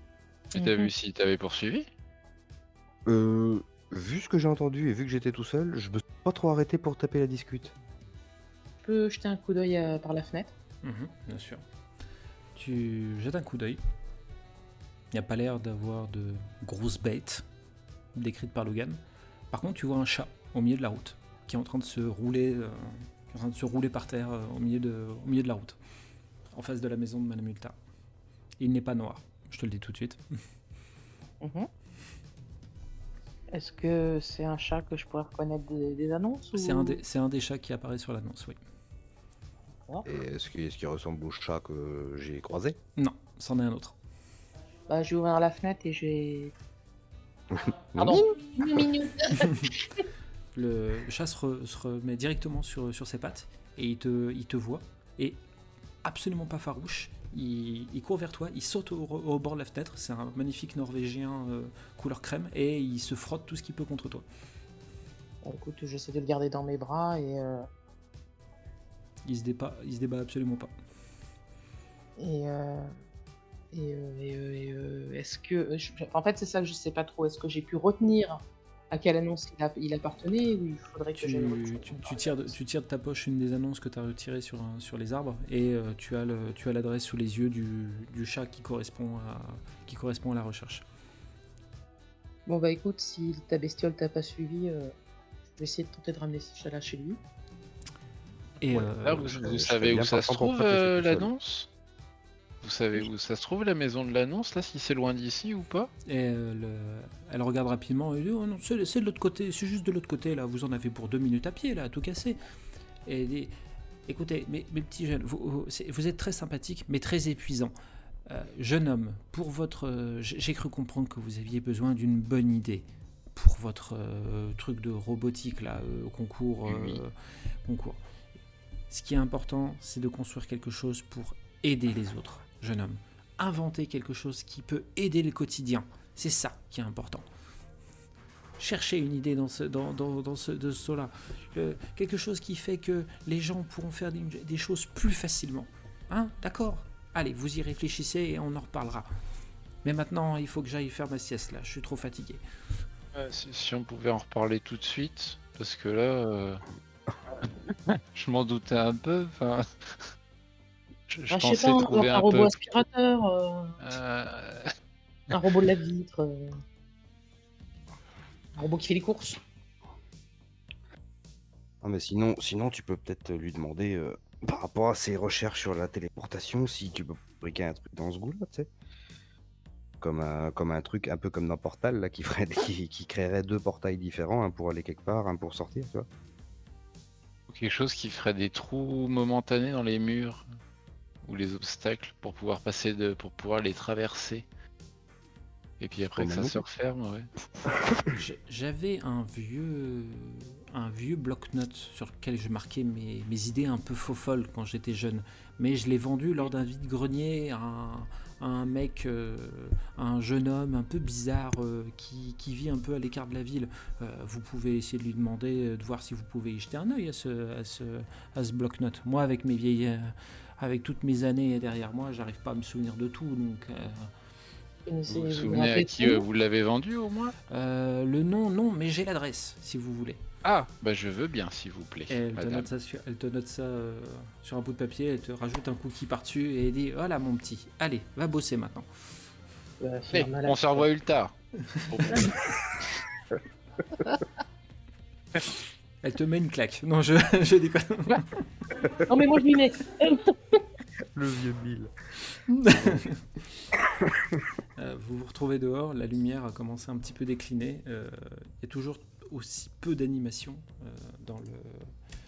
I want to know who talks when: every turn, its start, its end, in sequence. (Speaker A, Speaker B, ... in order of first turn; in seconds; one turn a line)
Speaker A: 0.5-1.9
Speaker B: 0.5-0.9
Speaker C: 3.1-7.7
Speaker B: 8.8-10.5
Speaker D: 10.8-11.6
Speaker D: 12.5-13.8
Speaker D: 15.1-17.4
Speaker D: 18.1-19.0
Speaker D: 19.5-25.8
Speaker D: 26.5-27.8
Speaker D: 28.6-30.2
Speaker B: 31.4-31.7
Speaker B: 33.5-37.0
Speaker D: 36.5-38.6
Speaker C: 40.0-42.8
Speaker D: 43.0-44.0
Speaker B: 44.9-46.5
Speaker C: 47.5-48.3
Speaker B: 48.0-50.0
Speaker D: 50.5-55.4
Speaker D: 56.0-64.2
Speaker B: 65.4-67.7
Speaker D: 69.2-70.7
Speaker B: 72.2-73.0
Speaker B: 73.7-82.5
Speaker D: 81.2-90.8
Speaker B: 92.5-94.9
Speaker B: 95.5-97.2
Speaker D: 98.6-99.3
Speaker A: 98.7-101.7
Speaker C: 99.2-101.3
Speaker A: 102.6-105.9
Speaker D: 106.0-112.4
Speaker D: 113.0-113.5
Speaker D: 114.1-117.7
Speaker D: 118.2-128.0
Speaker A: 126.7-127.0
Speaker D: 128.9-137.3
Speaker D: 138.6-149.1
Speaker D: 149.8-152.4
Speaker A: 153.1-156.6
Speaker A: 157.7-160.1
Speaker A: 161.1-162.5
Speaker B: 161.3-163.8
Speaker A: 163.8-164.7
Speaker B: 165.3-166.6
Speaker B: 168.6-169.4
Speaker C: 171.8-178.7
Speaker C: 180.0-186.1
Speaker A: 187.5-190.4
Speaker A: 191.2-194.4
Speaker A: 195.8-197.3
Speaker C: 196.2-196.6
Speaker D: 198.1-224.1
Speaker B: 224.9-226.2
Speaker A: 225.1-227.3
Speaker D: 227.5-230.2
Speaker A: 230.4-232.7
Speaker D: 232.1-238.9
Speaker B: 239.8-240.9
Speaker A: 240.1-242.7
Speaker B: 242.1-242.4
Speaker D: 246.0-248.7
Speaker B: 248.9-250.6
Speaker C: 251.1-251.9
Speaker D: 252.4-253.5
Speaker C: 252.7-253.1
Speaker C: 254.0-254.2
Speaker D: 254.8-261.9